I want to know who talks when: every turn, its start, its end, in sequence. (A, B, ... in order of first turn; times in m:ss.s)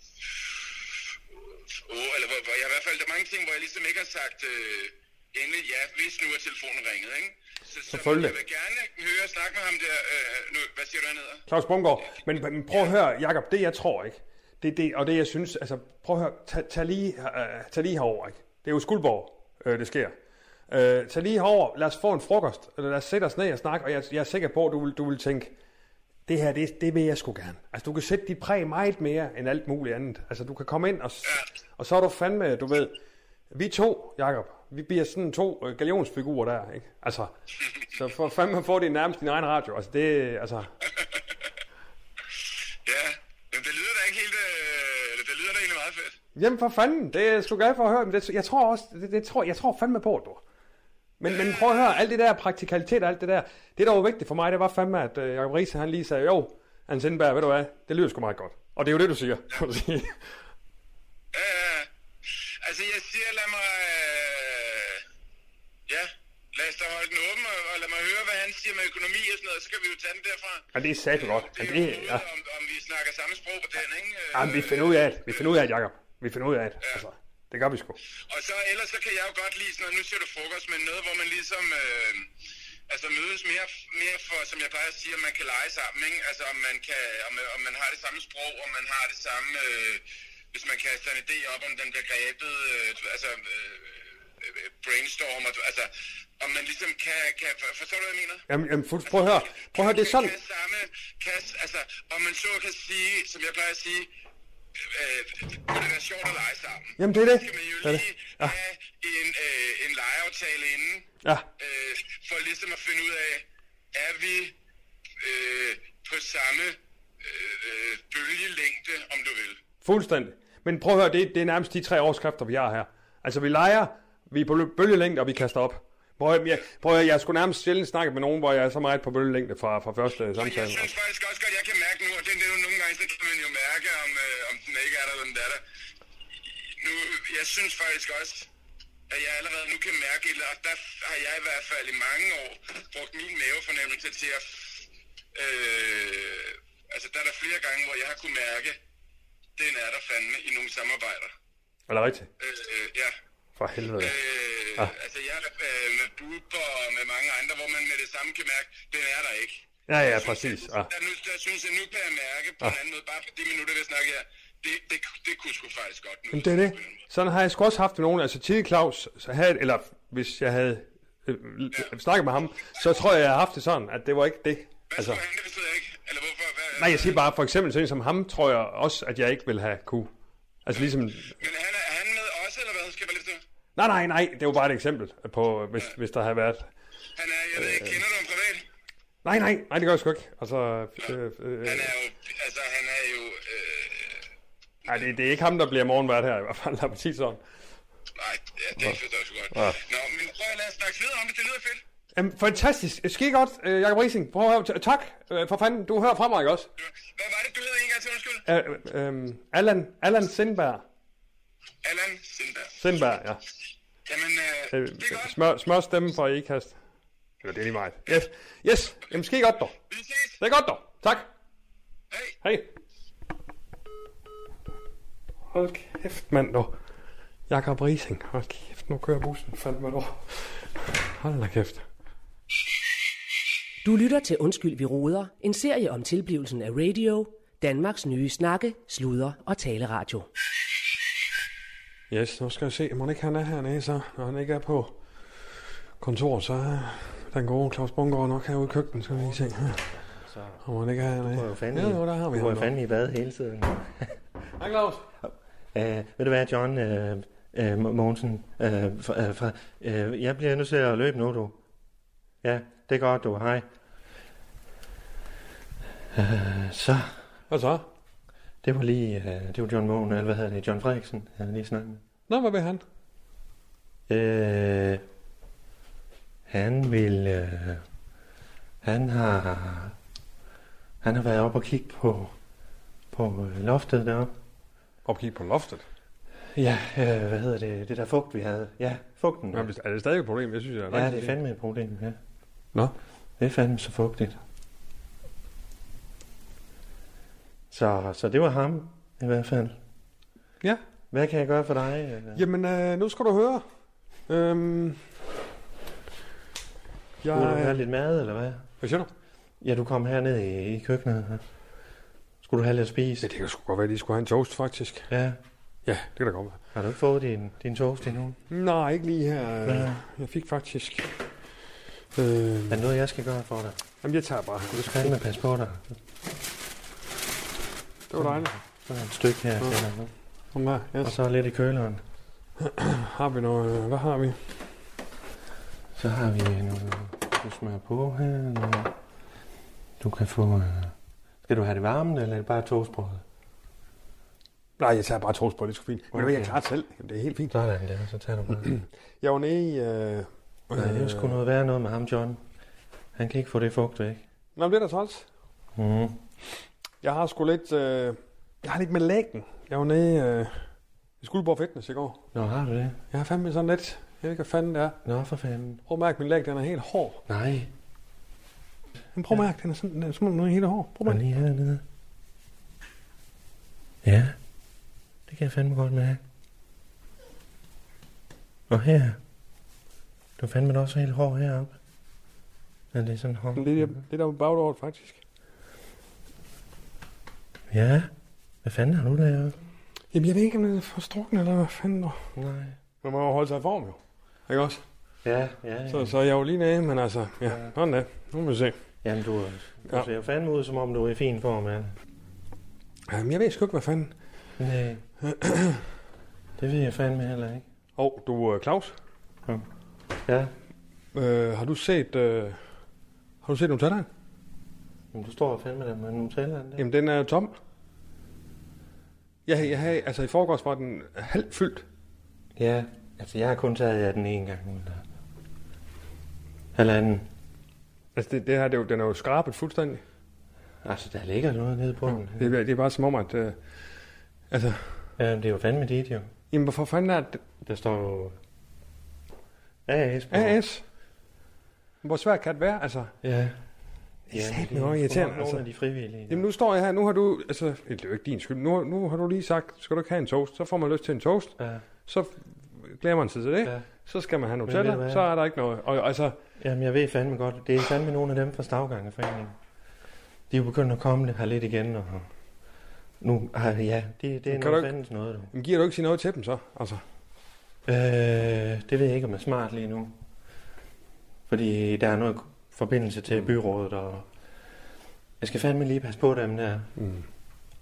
0:00.3-0:11.4 A
0:07.9-0:08.4 B
0:11.5-0:20.1 B
0:20.7-0:25.5 B
0:26.3-0:33.0 B
0:33.5-0:37.3 B
0:37.9-0:40.7 B
0:42.8-0:46.2 A
0:46.3-0:50.4 B
0:51.2-1:00.2 B
0:51.3-0:51.9 A
1:01.3-1:05.0 A
1:05.9-1:15.5 A
1:10.7-1:12.2 B
1:14.3-1:18.0 B
1:18.2-1:22.3 A
1:22.9-1:38.4 A
1:38.5-1:40.3 B
1:39.1-1:44.1 A
1:44.8-1:54.6 A
1:47.0-1:48.6 B
1:55.2-1:59.6 A
1:59.8-2:10.9 B
2:10.4-2:15.6 A
2:16.6-2:18.5 A
2:19.1-2:28.8 A
2:29.6-2:31.3 A
2:31.9-2:32.3 B
2:32.4-2:33.1 A
2:33.6-2:34.2 B
2:34.0-2:47.0 A
2:39.9-2:40.9 B
2:46.3-2:55.2 B
2:54.9-2:57.2 A
2:56.8-3:00.1 B
3:00.6-3:01.3 B
3:01.4-3:03.4 A
3:03.8-3:06.7 B
3:07.2-3:08.6 A
3:07.6-3:08.0 B
3:09.2-3:11.9 B
3:11.6-3:14.2 A
3:14.8-3:17.4 B
3:18.2-3:21.8 A
3:19.5-3:19.8 B
3:22.1-3:26.7 B
3:26.8-3:28.4 A
3:28.4-3:30.8 B
3:31.8-3:32.8 A
3:32.8-3:33.4 B
3:34.1-3:35.3 A
3:34.7-3:36.7 B
3:37.4-3:39.7 B
3:39.9-3:40.4 A
3:40.4-3:41.3 B
3:42.4-3:42.7 B
3:45.5-3:46.7 B
3:47.5-3:51.8 B
3:53.8-4:00.3 C
4:02.1-4:05.0 B
4:06.0-4:09.9 B
4:08.9-4:10.6 D
4:10.6-4:12.7 B
4:11.2-4:14.2 D
4:14.6-4:15.1 B
4:15.2-4:21.6 D
4:22.4-4:23.6 D
4:26.1-4:27.2 D
4:27.5-4:27.8 B
4:28.6-4:32.0 D
4:32.3-4:32.8 B
4:34.1-4:35.0 D
4:36.5-4:37.8 D
4:38.8-4:39.9 D
4:41.0-4:42.3 D
4:43.1-4:44.3 D
4:45.0-4:45.8 B
4:46.5-4:49.7 D
4:49.5-4:51.4 B
4:50.9-4:52.2 D
4:53.4-4:54.4 D
4:57.7-4:59.8 D
5:01.1-5:02.4 D
5:02.3-5:03.6 B
5:04.3-5:05.0 B
5:07.2-5:07.8 B
5:07.3-5:08.7 D
5:08.8-5:09.1 B
5:09.6-5:11.4 D
5:12.4-5:13.3 D
5:13.2-5:15.1 B
5:15.1-5:15.4 D
5:15.8-5:16.6 B
5:16.7-5:18.4 D
5:18.5-5:21.1 B
5:19.6-5:20.0 D
5:22.2-5:22.8 B
5:22.7-5:23.8 D
5:24.0-5:25.3 B
5:24.7-5:25.9 D
5:28.1-5:28.6 B
5:28.2-5:30.1 D
5:30.5-5:31.1 B
5:31.0-5:32.0 D
5:32.6-5:34.4 B
5:36.0-5:38.9 D
5:40.0-5:40.9 D
5:41.4-5:43.2 D
5:44.8-5:47.5 B
5:46.1-5:46.6 D
5:47.5-5:48.7 D
5:48.6-5:51.4 B
5:50.7-5:52.4 D
5:53.2-5:54.2 D
5:54.6-5:55.2 B
5:55.8-5:56.2 D
5:57.0-6:00.6 B
6:01.2-6:02.2 B
6:02.3-6:03.0 D
6:03.1-6:05.0 B
6:05.0-6:05.8 D
6:05.9-6:07.2 B
6:07.3-6:07.7 D
6:09.1-6:11.2 B
6:11.1-6:11.8 D
6:14.0-6:14.4 D
6:15.3-6:16.2 D
6:18.7-6:19.2 D
6:20.4-6:21.8 D
6:22.9-6:24.0 D
6:23.6-6:25.2 B
6:27.7-6:28.1 D
6:28.6-6:29.6 D
6:30.1-6:32.2 B
6:32.4-6:32.8 D
6:33.0-6:34.8 B
6:35.2-6:36.2 D
6:35.9-6:38.7 B
6:39.0-6:41.9 D
6:43.1-6:44.1 B
6:44.6-6:45.0 D
6:45.2-6:45.8 B
6:46.6-6:47.6 D
6:48.0-6:48.9 B
6:50.2-6:50.5 D
6:51.1-6:52.6 B
6:53.4-6:54.1 B
6:55.1-6:56.8 D
6:56.8-6:57.5 B
6:59.4-7:01.8 B
7:02.6-7:05.0 D
7:06.7-7:07.2 D
7:08.1-7:10.0 B
7:10.8-7:12.6 D
7:12.3-7:13.6 B
7:14.5-7:15.0 B
7:15.2-7:16.3 D
7:16.5-7:17.4 B
7:17.6-7:18.4 D
7:19.9-7:20.6 D
7:20.3-7:20.8 B
7:22.0-7:23.1 B
7:23.2-7:23.6 D
7:24.3-7:26.5 D
7:24.3-7:25.6 B
7:26.3-7:31.6 B
7:31.6-7:31.8 D
7:32.1-7:36.4 B
7:34.6-7:35.2 D
7:36.6-7:39.5 D
7:40.5-7:42.3 D
7:43.2-7:45.5 D
7:44.5-7:44.9 B
7:45.5-7:47.0 B
7:47.9-7:50.2 D
7:51.5-7:54.2 D
7:55.4-7:56.9 D
7:57.0-7:57.2 B